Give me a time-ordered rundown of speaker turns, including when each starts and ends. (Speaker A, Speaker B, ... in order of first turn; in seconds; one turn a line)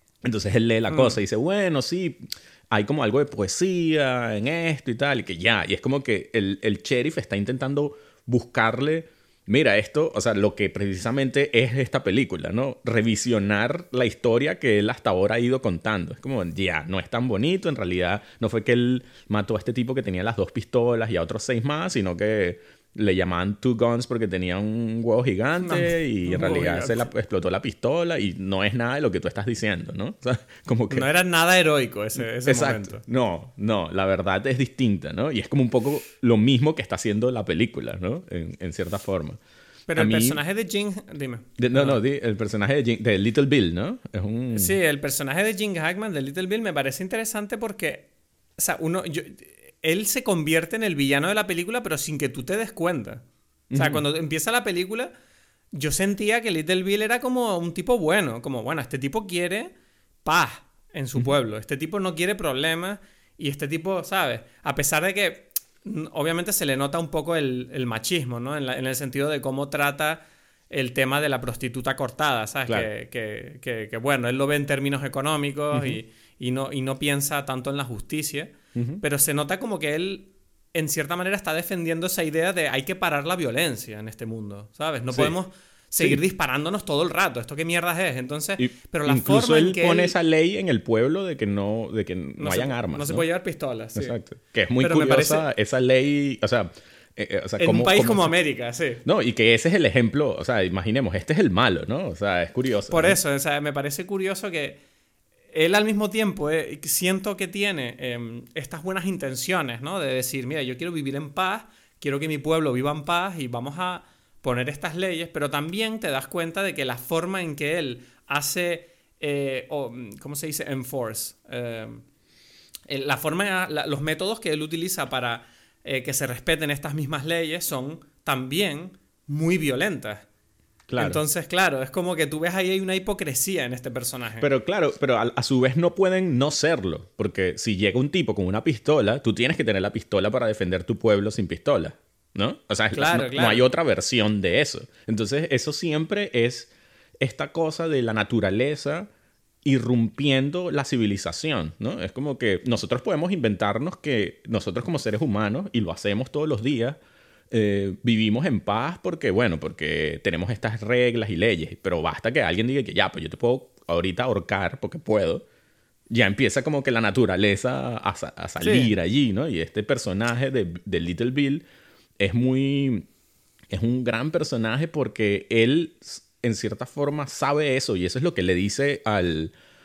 Speaker A: 0.2-31.1
Speaker B: 0.9-1.2
Speaker B: 25.6-27.1
Speaker B: 30.9-33.0
Speaker A: 32.2-39.4
Speaker B: 39.9-42.0
Speaker A: 40.0-40.4
Speaker A: 41.6-44.8
Speaker B: 44.5-53.2
Speaker A: 53.7-54.0
Speaker B: 53.7-55.1
Speaker B: 55.7-59.7
Speaker B: 60.2-90.1
Speaker A: 75.7-76.0
Speaker A: 78.7-79.0
Speaker A: 88.6-93.2
Speaker B: 92.4-94.2
Speaker A: 93.9-98.3
Speaker B: 94.8-95.5
Speaker B: 97.6-99.0
Speaker A: 99.0-103.2
Speaker B: 102.9-104.8
Speaker B: 105.5-122.0
Speaker B: 122.9-130.2
Speaker A: 130.9-131.2
Speaker B: 131.0-134.5
Speaker A: 134.4-149.1
Speaker B: 142.9-143.7
Speaker A: 149.6-157.0
Speaker A: 157.5-165.4
Speaker A: 166.1-171.6
Speaker B: 168.6-168.9
Speaker A: 172.2-173.1
Speaker A: 173.7-179.5